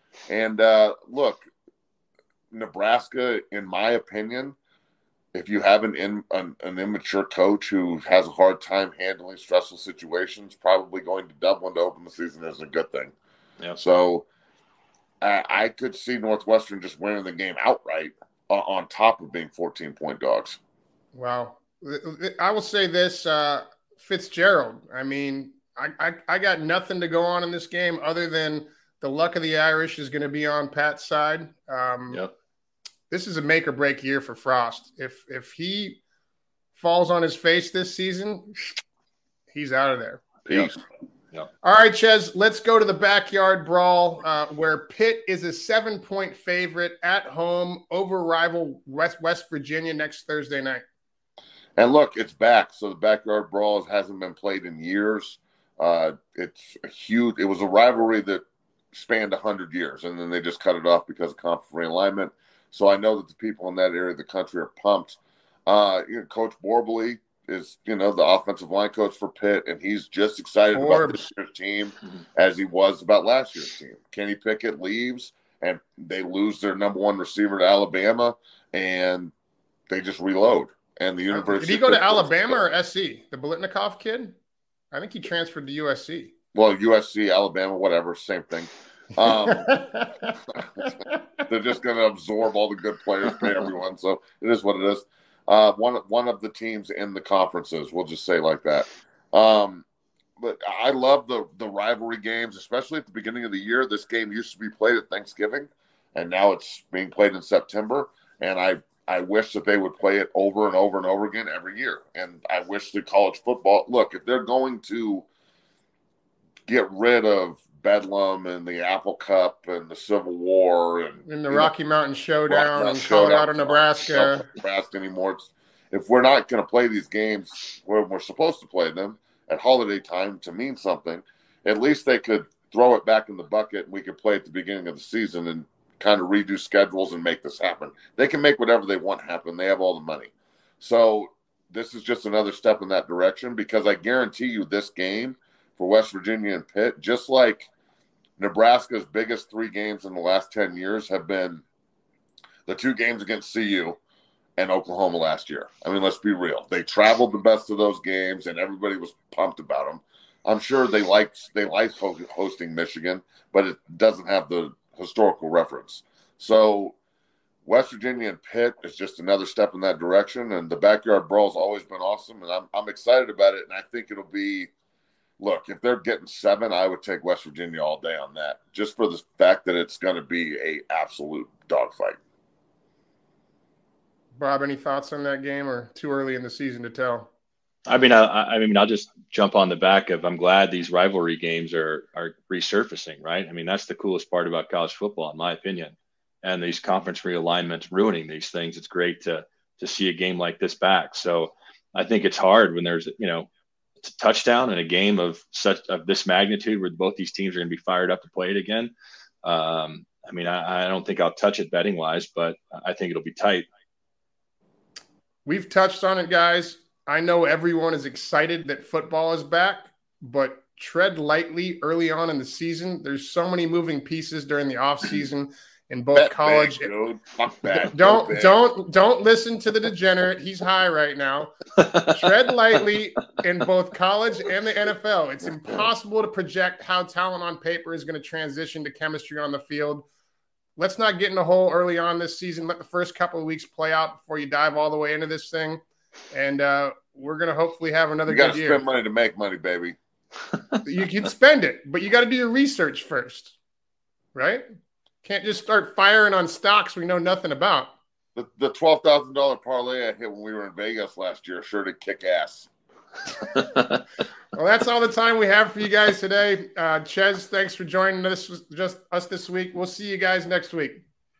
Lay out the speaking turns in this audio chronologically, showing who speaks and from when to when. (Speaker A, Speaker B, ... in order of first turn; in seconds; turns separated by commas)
Speaker A: 0.3-1.5, Speaker A: 2.5-4.5, Speaker A: 5.3-13.1, Speaker A: 13.8-14.2, Speaker A: 15.2-20.6, Speaker B: 21.1-32.2, Speaker B: 33.1-36.0, Speaker B: 36.7-38.6, Speaker B: 39.5-40.7, Speaker A: 40.5-40.7, Speaker B: 41.6-50.8, Speaker A: 51.8-79.3, Speaker B: 70.7-71.2, Speaker A: 79.9-82.6, Speaker B: 81.3-84.3, Speaker B: 84.9-86.3, Speaker A: 86.5-89.8, Speaker B: 89.2-91.2, Speaker A: 90.5-90.9, Speaker A: 91.5-99.8, Speaker A: 100.4-115.2, Speaker A: 116.7-121.7, Speaker B: 121.2-124.4, Speaker A: 122.5-147.7, Speaker A: 148.4-151.6, Speaker A: 152.7-154.0, Speaker A: 154.6-166.9, Speaker A: 167.6-174.7, Speaker A: 175.4-182.2, Speaker B: 184.3-187.3, Speaker C: 187.9-203.5, Speaker C: 204.0-208.9, Speaker C: 209.4-213.7, Speaker B: 215.4-226.9, Speaker A: 226.1-228.6, Speaker B: 227.7-240.1, Speaker B: 240.8-248.8, Speaker A: 248.3-250.0, Speaker B: 250.8-253.6, Speaker B: 254.3-254.6, Speaker B: 255.2-257.9, Speaker A: 258.4-262.7, Speaker C: 263.6-264.0, Speaker B: 264.5-271.0